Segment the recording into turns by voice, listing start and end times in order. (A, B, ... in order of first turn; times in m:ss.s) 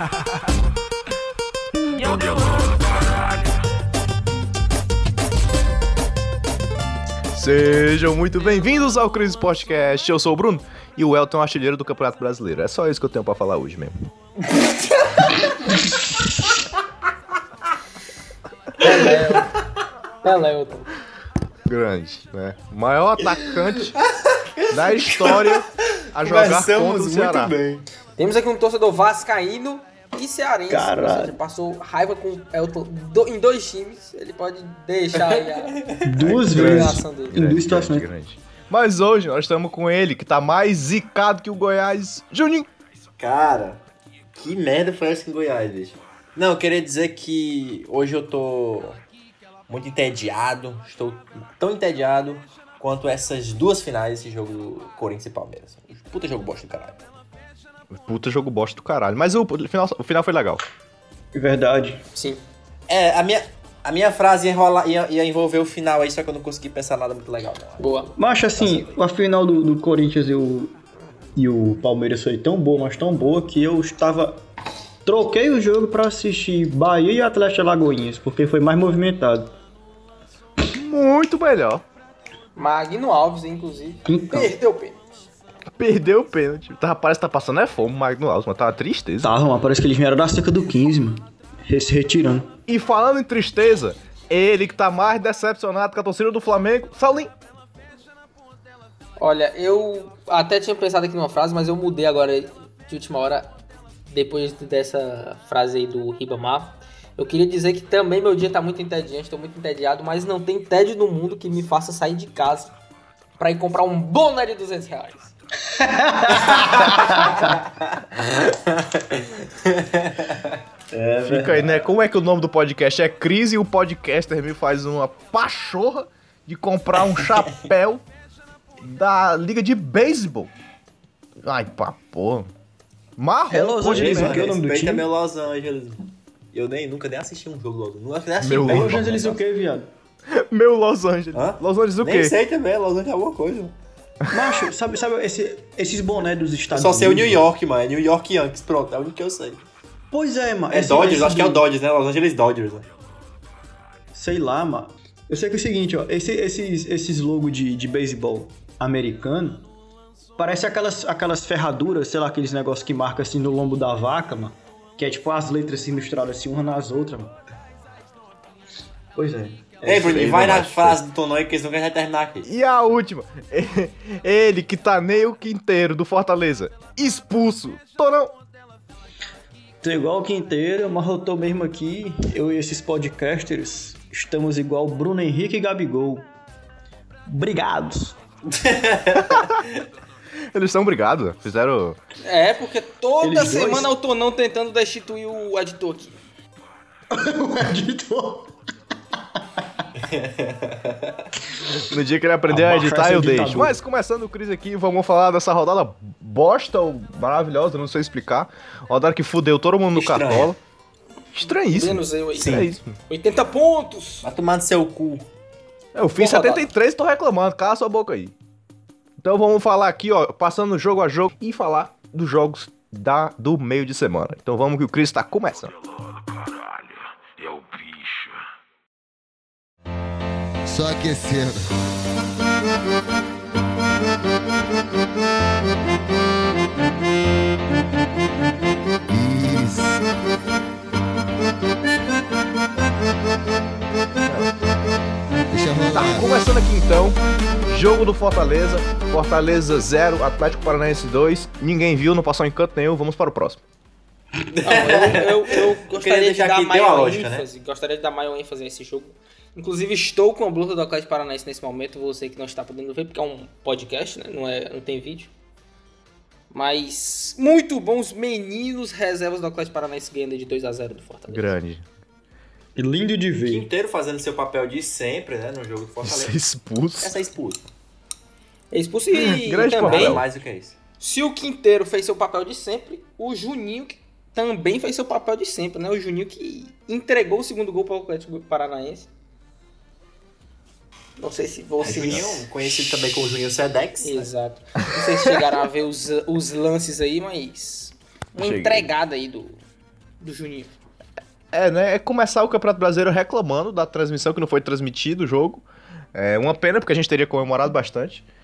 0:07.4-0:13.9 A
0:18.8-0:19.6 B
0:20.2-0:20.9 B
0:21.7-0:24.0 A
0:23.5-0:25.6 C
0:24.7-0:27.5 A
0:26.2-0:27.9 C
0:28.2-0:35.8 B
0:30.7-0:31.4 D
0:35.3-0:36.0 C
0:36.0-0:38.1 D
0:36.2-0:42.7 A
0:36.4-0:37.4 B
0:43.2-0:43.8 C
0:44.4-0:49.0 C
0:49.7-0:57.0 C
0:58.0-1:00.6 A
1:01.3-1:02.0 D
1:02.2-1:02.4 B
1:02.9-1:07.9 C
1:07.8-1:08.1 B
1:08.2-1:10.7 D
1:08.6-1:08.9 C
1:11.4-1:14.4 D
1:15.0-1:19.5 D
1:20.6-1:21.8 A
1:22.6-1:25.3 B
1:24.1-1:24.6 D
1:25.8-1:29.3 A
1:29.2-1:32.5 D
1:32.7-1:37.3 A
1:39.2-1:43.6 B
1:44.1-1:52.7 B
1:53.4-1:55.3 B
1:55.8-1:57.6 D
1:56.8-1:57.5 C
1:58.2-2:01.8 C
2:01.2-2:08.0 A
2:08.8-2:10.5 A
2:11.4-2:12.5 A
2:13.2-2:14.5 A
2:13.5-2:15.1 D
2:13.9-2:19.4 C
2:18.4-2:19.4 A
2:18.7-2:19.9 D
2:20.3-2:22.3 A
2:21.3-2:23.7 C
2:24.2-2:24.6 A
2:24.3-2:27.4 D
2:26.7-2:29.6 C
2:30.1-2:31.6 D
2:30.7-2:32.9 C
2:34.1-2:39.7 D
2:40.4-2:47.4 D
2:49.2-2:49.9 D
2:49.8-2:52.5 C
2:49.8-2:51.0 A
2:52.4-2:58.4 A
2:59.8-3:06.3 D
3:07.3-3:08.2 D
3:08.5-3:09.8 C
3:09.2-3:09.6 A
3:10.5-3:12.0 A
3:12.2-3:16.2 B
3:13.2-3:13.9 D
3:17.1-3:18.5 D
3:20.0-3:21.3 C
3:21.8-3:30.6 A
3:22.5-3:23.7 D
3:29.9-3:30.5 C
3:31.3-3:33.0 A
3:31.7-3:34.3 B
3:32.4-3:32.7 C
3:34.2-3:35.2 C
3:36.0-3:38.3 A
3:36.1-3:36.7 B
3:39.2-3:45.8 A
3:47.4-3:48.3 A
3:50.7-3:51.7 E
3:59.1-4:00.0 E
4:05.5-4:06.2 E
4:05.9-4:13.6 A
4:14.5-4:17.5 C
4:14.6-4:25.3 B
4:26.5-4:31.5 B
4:31.3-4:31.8 A
4:32.8-4:33.7 D
4:33.4-4:36.4 C
4:36.0-4:37.1 A
4:37.0-4:37.6 C
4:38.7-4:40.2 B
4:39.1-4:40.2 A
4:39.8-4:40.8 C
4:41.0-4:49.1 B
4:51.2-4:52.4 B
4:51.8-4:54.3 C
4:54.0-4:59.6 B
4:58.4-4:58.9 A
5:00.2-5:00.7 B
5:01.5-5:08.3 A